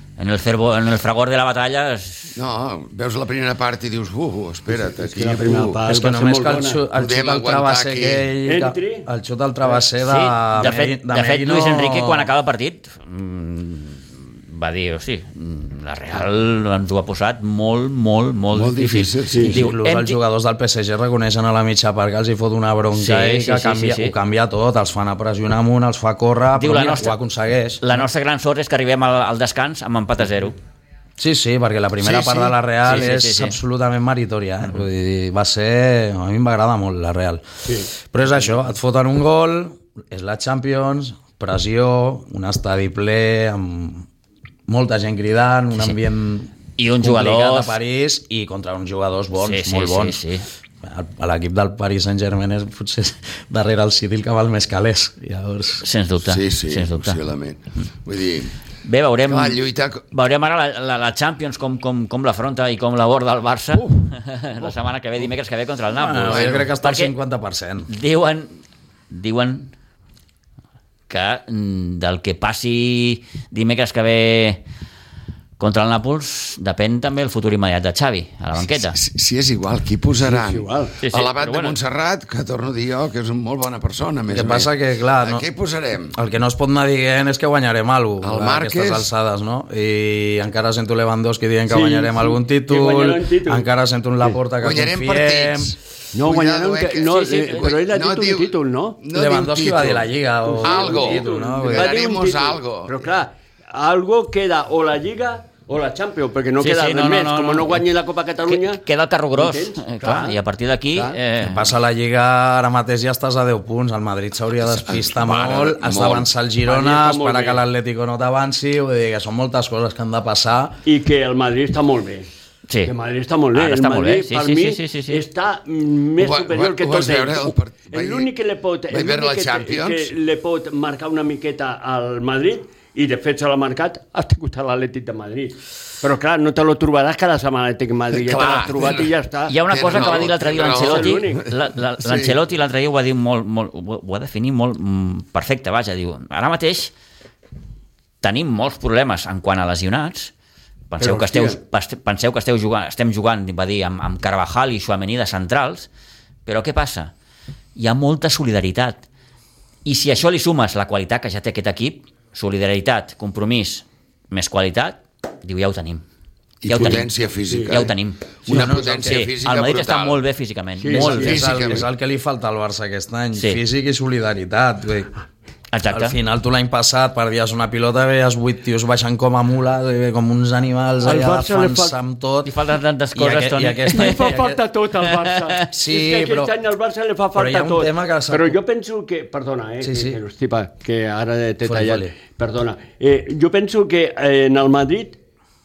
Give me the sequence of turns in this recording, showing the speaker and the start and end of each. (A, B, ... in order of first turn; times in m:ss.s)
0:00.2-0:02.4 A
0:02.4-0:05.8 B
0:04.7-0:06.8 C
0:05.8-0:12.3 D
0:06.9-0:08.3 B
0:08.4-0:09.1 C
0:10.0-0:20.2 A
0:18.5-0:19.6 B
0:19.3-0:19.6 C
0:19.4-0:27.8 D
0:22.9-0:24.1 A
0:26.5-0:27.2 A
0:27.8-0:30.5 A
0:31.2-0:44.1 D
0:32.0-0:33.6 A
0:37.6-0:37.9 C
0:44.7-0:50.2 D
0:46.8-0:47.8 A
0:49.4-0:50.5 A
0:50.8-0:55.8 D
0:55.8-0:57.2 A
0:56.2-0:58.5 B
0:58.8-1:07.1 A
0:59.3-1:00.0 B
1:06.0-1:07.9 D
1:06.3-1:06.7 B
1:07.9-1:08.6 A
1:09.1-1:09.7 A
1:11.1-1:14.6 A
1:15.6-1:19.0 A
1:18.8-1:26.2 B
1:20.2-1:21.0 C
1:21.0-1:21.8 A
1:24.3-1:25.4 D
1:26.1-1:35.7 D
1:28.2-1:29.1 B
1:31.7-1:33.6 C
1:34.6-1:40.1 B
1:36.1-1:39.0 C
1:37.4-1:37.6 A
1:39.1-1:42.0 D
1:40.4-1:50.4 C
1:40.6-1:43.0 B
1:46.6-1:47.8 A
1:48.5-1:51.7 A
1:51.4-2:00.8 D
1:54.6-1:56.3 B
1:56.6-1:57.6 C
2:00.8-2:02.3 C
2:02.8-2:21.4 C
2:03.5-2:05.2 A
2:06.2-2:08.3 B
2:08.9-2:10.1 B
2:18.1-2:19.1 B
2:19.5-2:26.9 A
2:19.7-2:21.4 B
2:22.0-2:22.4 B
2:28.2-2:30.3 A
2:30.9-2:35.9 A
2:31.0-2:31.6 C
2:36.4-2:37.1 A
2:37.8-2:39.0 A
2:39.8-2:46.0 A
2:46.6-2:50.2 B
2:46.6-2:48.4 A
2:46.8-2:47.9 C
2:48.5-2:48.8 C
2:48.5-2:49.2 D
2:49.0-2:51.4 A
2:50.8-2:51.4 C
2:50.9-2:55.1 D
2:51.2-2:51.9 B
2:55.7-2:56.2 A
2:55.9-3:02.5 D
3:01.0-3:02.0 C
3:02.4-3:04.3 A
3:03.1-3:04.6 D
3:03.9-3:15.2 C
3:05.1-3:05.6 A
3:05.7-3:06.5 D
3:07.3-3:08.6 D
3:09.8-3:10.2 D
3:11.6-3:12.1 D